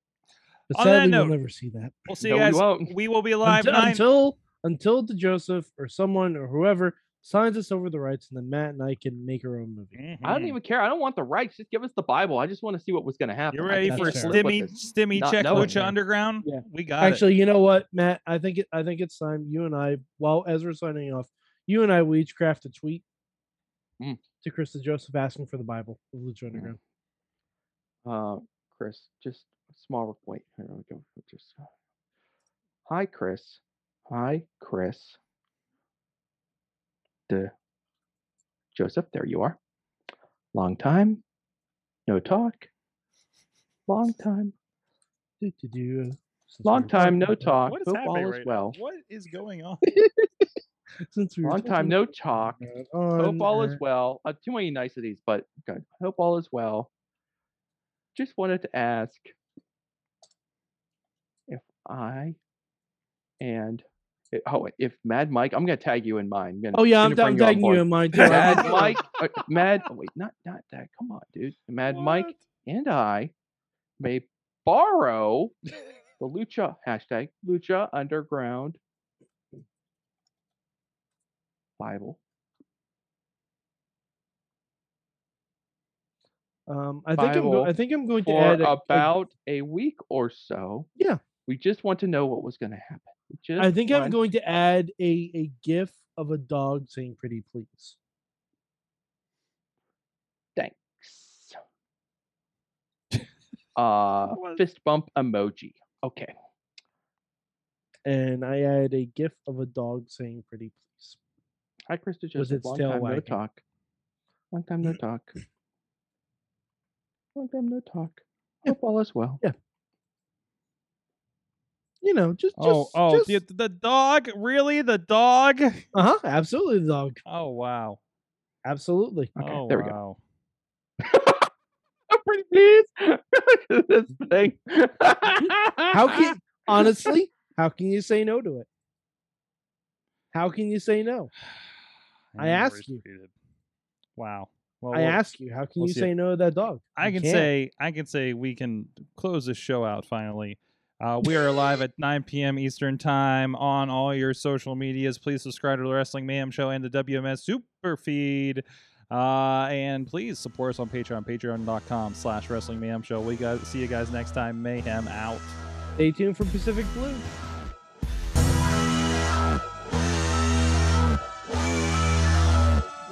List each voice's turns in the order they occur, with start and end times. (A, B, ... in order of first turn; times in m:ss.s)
0:00.7-0:02.0 A
0:00.7-0:01.3 B
0:02.1-0:04.0 B
0:02.2-0:02.9 C
0:03.4-0:09.9 A
0:09.9-0:10.6 B
0:10.2-0:15.9 C
0:13.5-0:17.2 B
0:13.9-0:14.4 A
0:15.5-0:15.9 A
0:16.4-0:23.0 A
0:24.4-0:26.8 A
0:28.0-0:31.7 C
0:32.9-0:35.2 C
0:38.7-0:39.6 C
0:40.5-0:41.2 C
0:42.1-0:42.7 C
0:43.9-0:44.5 C
0:45.4-0:47.6 A
0:46.6-0:48.8 C
0:47.7-0:49.9 B
0:49.8-0:50.3 A
0:51.0-0:53.8 A
0:51.4-0:52.6 C
0:53.2-0:56.9 C
0:58.1-0:59.3 C
1:01.5-1:02.4 C
1:03.4-1:13.3 C
1:06.7-1:09.0 A
1:08.1-1:09.0 B
1:11.9-1:12.4 B
1:14.0-1:15.5 C
1:16.2-1:18.8 C
1:21.8-1:22.2 C
1:26.7-1:29.1 A
1:27.2-1:30.9 C
1:31.4-1:34.2 C
1:33.6-1:38.0 A
1:40.6-1:41.6 C
1:43.8-1:46.3 C
1:44.3-1:44.6 B
1:48.0-1:51.2 A
1:51.9-1:53.6 C
1:52.4-1:53.4 A
1:54.5-1:55.3 C
1:57.3-1:59.4 C
2:02.0-2:03.4 A
2:02.6-2:05.8 B
2:05.9-2:07.2 A
2:07.2-2:08.0 B
2:08.6-2:09.3 A
2:09.4-2:10.0 C
2:09.4-2:10.2 B
2:11.0-2:11.5 C
2:12.1-2:16.3 C
2:15.9-2:18.7 A
2:16.8-2:17.1 C
2:20.3-2:21.3 A
2:22.3-2:23.3 B
2:22.4-2:23.0 A
2:24.2-2:25.2 B
2:24.9-2:27.5 A
2:25.8-2:26.1 B
2:27.0-2:45.6 B
2:46.0-2:47.2 A